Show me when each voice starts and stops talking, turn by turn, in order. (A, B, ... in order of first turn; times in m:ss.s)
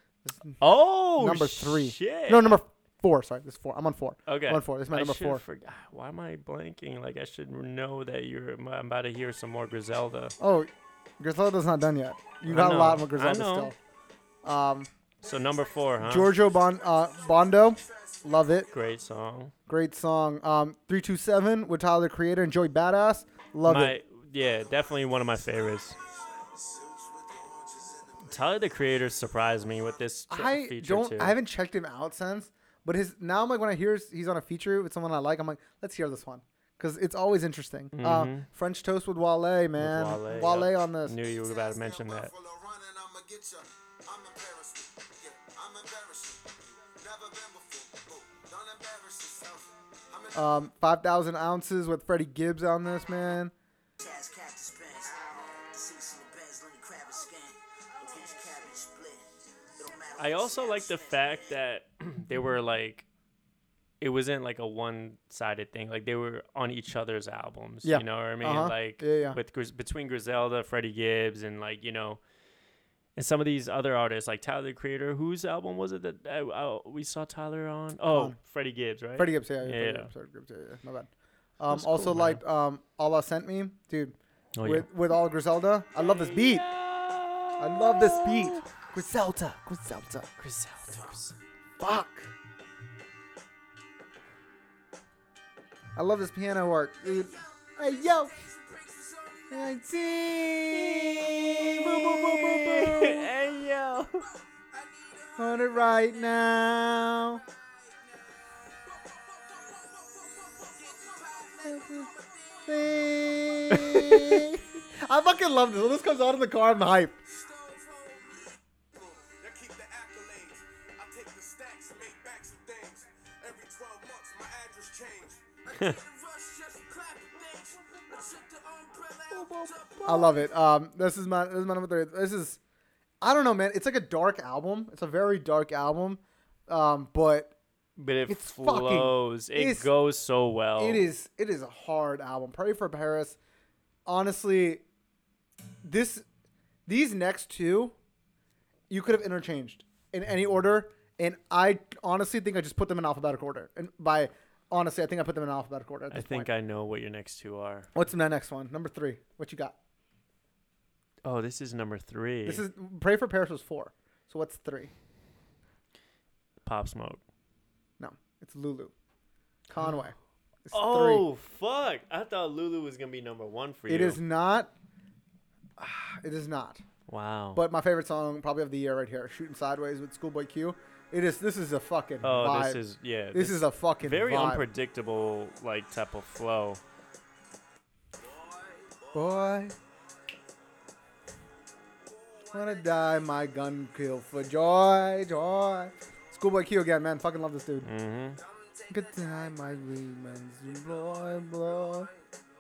0:00.2-0:00.6 A
0:00.6-0:02.6 B
0:01.2-0:05.4 A
0:04.3-0:10.4 B
0:10.4-0:13.8 A
0:12.5-0:13.7 B
0:14.4-0:14.9 A
0:15.2-0:16.3 B
0:15.2-0:19.0 C
0:16.0-0:18.7 A
0:18.7-0:19.5 B
0:19.7-0:24.0 A
0:23.6-0:26.0 B
0:24.4-0:25.0 C
0:25.9-0:28.9 C
0:28.2-0:31.4 B
0:30.3-0:41.2 A
0:37.9-0:38.5 B
0:39.8-0:42.3 B
0:41.2-0:50.7 C
0:50.3-0:53.5 A
0:54.4-0:55.0 D
0:55.0-0:56.1 C
0:55.8-0:57.4 D
0:58.0-0:59.2 C
0:59.8-1:01.4 C
1:00.2-1:03.1 B
1:00.4-1:01.1 D
1:04.0-1:12.2 B
1:07.8-1:09.4 A
1:13.2-1:20.1 B
1:19.2-1:21.1 A
1:21.6-1:26.7 A
1:21.7-1:22.4 B
1:24.6-1:24.9 B
1:26.0-1:28.6 B
1:27.6-1:30.3 A
1:30.4-1:31.3 B
1:31.8-1:32.3 A
1:36.0-1:38.4 A
1:37.3-1:39.5 C
1:39.5-1:43.3 A
1:40.7-1:44.3 B
1:44.7-1:46.6 C
1:45.4-1:47.4 A
1:48.9-1:53.9 C
1:51.6-1:52.1 A
1:52.7-1:57.2 A
1:53.7-1:54.5 B
1:57.3-1:58.3 C
1:58.0-1:58.2 D
1:59.0-2:10.4 C
2:05.8-2:06.0 B
2:10.0-2:12.6 A
2:13.2-2:17.6 A
2:18.0-2:21.0 B
2:18.3-2:19.9 A
2:20.8-2:23.4 A
2:24.1-2:24.8 A
2:25.8-2:26.2 A
2:26.9-2:28.0 A
2:28.9-2:36.5 A
2:36.1-2:37.9 B
2:37.9-2:39.8 A
2:41.2-2:42.6 B
2:42.4-2:44.9 A
2:46.6-2:47.2 B
2:48.0-2:48.9 A
2:49.7-2:51.3 A
2:50.7-2:54.2 B
2:53.9-2:54.7 A
2:55.8-2:56.8 A
2:57.1-2:57.6 B
2:57.6-3:02.8 A
3:02.2-3:06.8 B
3:03.3-3:04.7 A
3:08.2-3:09.3 C
3:09.1-3:09.8 A
3:12.1-3:13.1 C
3:12.5-3:17.9 A
3:17.8-3:18.4 B
3:18.4-3:22.2 C
3:18.9-3:22.1 A